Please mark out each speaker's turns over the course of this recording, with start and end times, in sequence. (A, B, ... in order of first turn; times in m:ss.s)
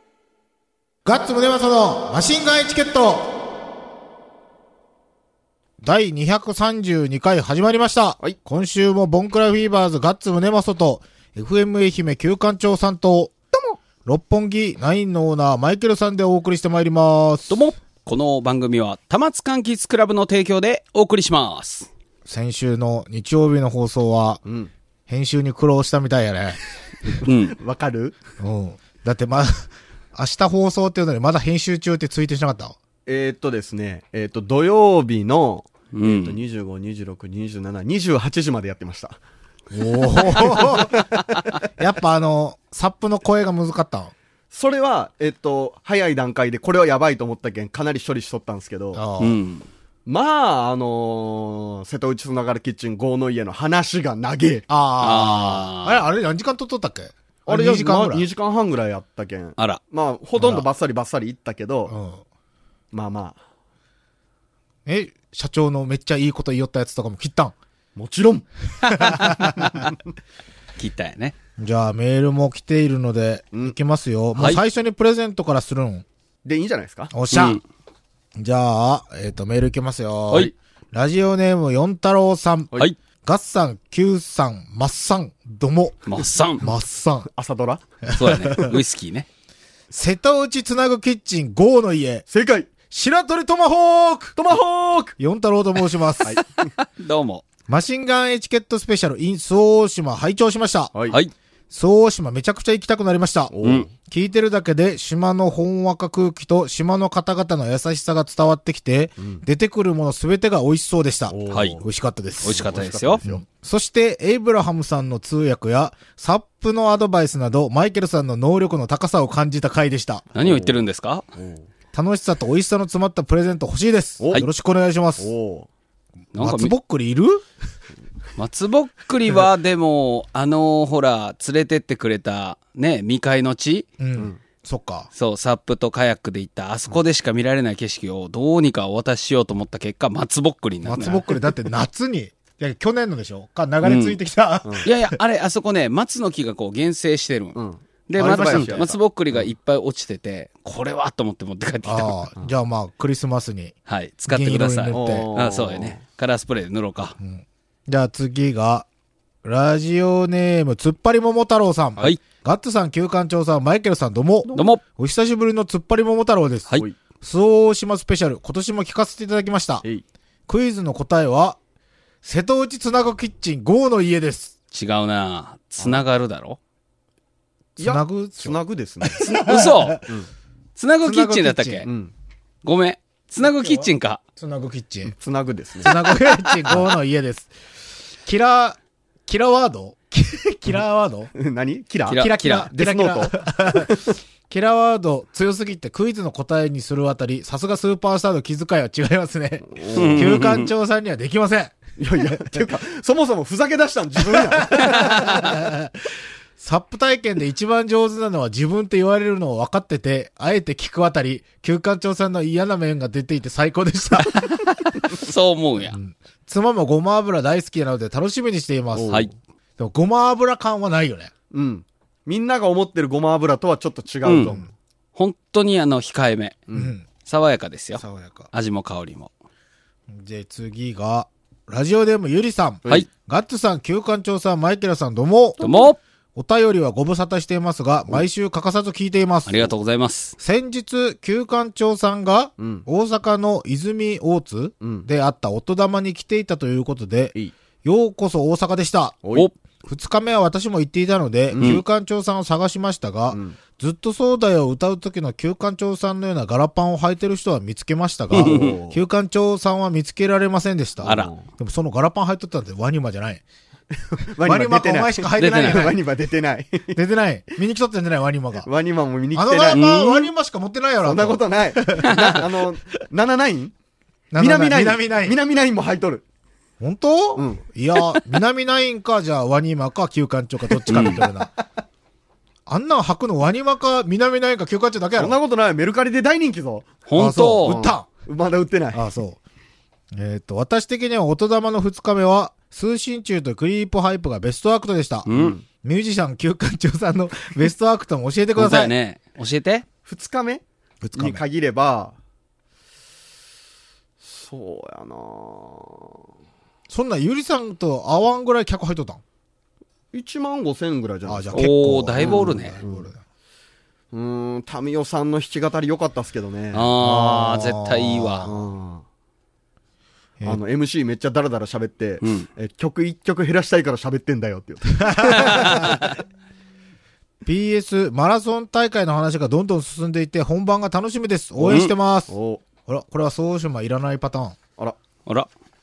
0:01.0-0:03.4 A
0:05.8-0:13.3 A
0:14.0-0:17.6 A
0:17.5-0:21.9 B
0:22.2-0:24.4 A
0:24.4-0:24.7 C
0:25.1-0:26.6 A
0:27.1-0:28.2 C
0:27.2-0:27.6 B
0:28.4-0:32.8 A
0:33.0-0:39.2 C
0:35.9-0:36.4 B
0:39.7-0:41.1 A
0:40.3-0:41.5 C
0:40.4-0:40.7 B
0:41.8-0:44.1 A
0:44.5-0:49.0 C
0:48.9-0:49.4 A
0:49.2-0:49.6 B
0:50.0-0:54.7 C
0:54.7-0:58.2 A
0:55.0-0:56.0 B
0:57.5-1:02.0 C
1:00.4-1:00.7 A
1:01.9-1:02.2 A
1:02.9-1:03.4 C
1:04.8-1:07.5 A
1:08.0-1:08.4 C
1:08.8-1:09.9 B
1:08.9-1:09.8 A
1:10.8-1:11.3 B
1:11.6-1:16.0 A
1:16.4-1:17.1 C
1:17.1-1:17.6 A
1:17.3-1:17.6 B
1:18.4-1:27.3 A
1:26.0-1:26.6 B
1:27.3-1:27.8 C
1:28.1-1:28.8 A
1:28.1-1:29.3 B
1:29.9-1:32.2 A
1:32.3-1:32.7 C
1:32.9-1:34.6 A
1:34.4-1:35.2 C
1:35.2-1:36.4 A
1:36.6-1:37.4 B
1:37.7-1:40.9 A
1:40.9-1:41.2 C
1:41.7-1:52.7 A
1:43.5-1:43.9 C
1:43.6-1:43.9 B
1:51.3-1:51.8 C
1:51.5-1:51.8 B
1:52.4-1:53.2 B
1:52.4-1:53.4 C
1:53.2-2:00.3 A
2:00.3-2:01.2 B
2:00.4-2:00.8 C
2:01.4-2:01.6 C
2:01.9-2:05.3 A
2:05.2-2:05.7 C
2:06.3-2:06.7 B
2:06.4-2:07.4 A
2:08.4-2:13.9 B
2:14.0-2:15.1 A
2:15.1-2:21.3 B
2:20.8-2:25.2 A
2:23.8-2:24.2 B
2:24.8-2:32.3 B
2:27.6-2:28.9 C
2:28.1-2:28.9 A
2:31.8-2:33.8 A
2:33.9-2:37.2 B
2:34.3-2:35.3 A
2:34.9-2:36.0 C
2:37.2-2:38.8 A
2:39.4-2:49.8 A
2:44.5-2:44.8 B
2:50.5-2:51.6 A
2:52.2-2:54.5 A
2:54.7-2:56.6 B
2:57.8-3:00.1 A
2:57.8-2:59.2 C
2:59.2-3:00.0 B
3:00.8-3:01.9 B
3:01.0-3:01.8 A
3:01.8-3:02.1 C
3:02.6-3:04.2 B
3:03.4-3:05.1 A
3:05.1-3:06.1 C
3:05.8-3:07.6 A
3:08.2-3:11.3 A
3:11.3-3:14.2 C
3:12.1-3:12.7 B
3:12.1-3:22.6 A
3:19.8-3:20.3 C
3:19.9-3:20.7 B
3:22.0-3:25.7 C
3:24.2-3:26.0 A
3:24.8-3:25.5 B
3:26.6-3:34.4 A
3:34.2-3:36.0 B
3:35.9-3:39.2 A
3:38.9-3:39.3 C
3:39.8-3:41.3 A
3:41.5-3:44.6 C
3:44.2-3:44.6 B
3:45.2-3:46.6 B
3:46.7-3:47.1 A
3:47.2-3:49.3 B
3:48.0-3:48.5 A
3:50.1-3:55.7 A
3:55.6-3:56.0 B
3:56.3-3:59.7 A
3:59.4-4:00.4 B
4:00.4-4:09.2 A
4:02.6-4:02.8 C
4:04.8-4:05.1 C
4:09.8-4:23.4 A
4:11.5-4:11.8 C
4:13.3-4:13.6 C
4:18.3-4:18.8 B
4:18.3-4:19.0 C
4:21.0-4:21.4 C
4:21.0-4:21.3 B
4:24.0-4:27.0 C
4:24.4-4:26.0 A
4:25.4-4:25.9 B
4:26.9-4:28.7 A
4:28.6-4:30.2 C
4:29.3-4:32.5 A
4:29.7-4:30.1 B
4:31.0-4:33.7 C
4:32.0-4:32.4 B
4:34.3-4:35.4 A
4:34.4-4:36.2 C
4:36.8-4:41.5 A
4:37.4-4:37.6 C
4:40.7-4:41.4 C
4:40.9-4:41.2 B
4:42.6-4:45.4 A
4:45.2-4:47.0 C
4:47.1-4:47.9 B
4:47.2-4:48.1 A
4:47.6-4:49.0 C
4:48.9-4:49.4 A
4:50.1-4:55.3 A
4:55.3-4:55.6 B
4:55.3-4:55.6 C
4:55.8-4:58.9 A
4:58.6-4:59.8 B
5:00.0-5:00.6 C
5:01.0-5:01.4 A
5:01.2-5:02.2 C
5:04.2-5:06.1 C
5:06.9-5:09.2 A
5:10.1-5:11.7 C
5:11.2-5:13.2 A
5:11.5-5:12.8 B
5:12.2-5:13.1 C
5:14.1-5:16.9 C
5:16.7-5:18.5 B
5:17.0-5:18.6 A
5:18.4-5:19.0 C
5:20.4-5:26.1 C
5:22.2-5:22.5 B
5:25.0-5:26.0 A
5:25.2-5:26.2 B
5:27.4-5:32.3 A
5:31.6-5:31.9 B
5:31.6-5:32.6 C
5:32.8-5:34.6 A